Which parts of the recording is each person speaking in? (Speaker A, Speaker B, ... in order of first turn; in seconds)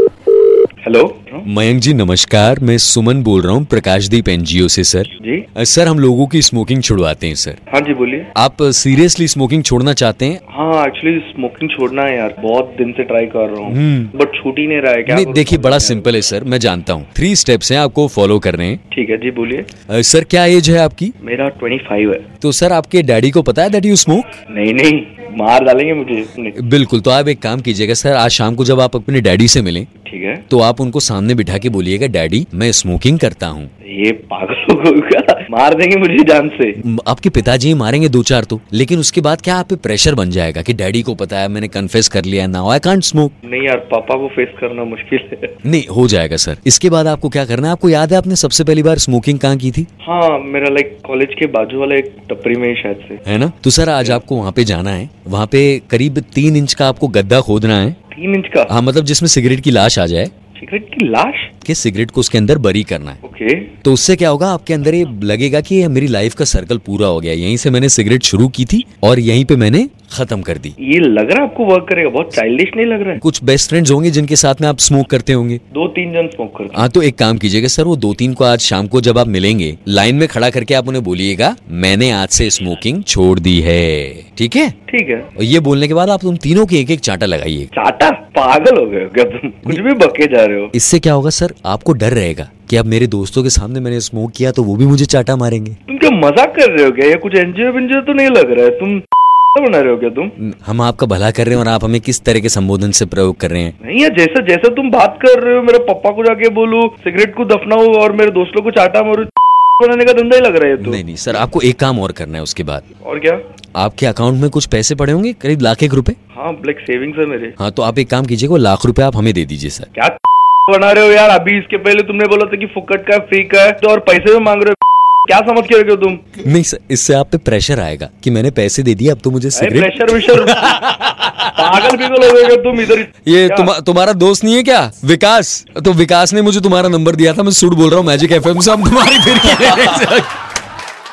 Speaker A: 0.8-1.5, 5.2-5.5, 7.7-8.3, 10.5-16.1, 18.9-19.7, 21.2-22.2, 24.5-26.6, 30.0-30.4, 33.8-36.8, 43.4-45.5, 50.0-53.2, 58.1-58.7, 60.5-61.5, 63.2-63.7, 70.8-73.2, 75.7-76.9, 84.9-85.3, 87.7-90.7, 95.9-99.0, 99.5-100.3, 103.8-111.0, 113.0-113.4, 116.3-117.5, 119.9-126.3, 129.5-130.8, 131.5-133.7
Speaker B: 1.4-7.6, 8.3-10.4, 13.7-14.1, 15.1-18.8, 19.9-21.1, 22.4-24.3, 26.6-29.9, 30.5-33.7, 36.9-43.3, 45.6-49.9, 53.2-58.0, 58.7-60.3, 61.6-63.2, 63.8-70.8, 73.2-75.6, 76.7-84.7, 85.4-87.7, 90.7-95.8, 100.4-103.7, 110.8-112.8, 113.8-116.2, 117.6-119.9, 126.4-131.9, 133.2-140.3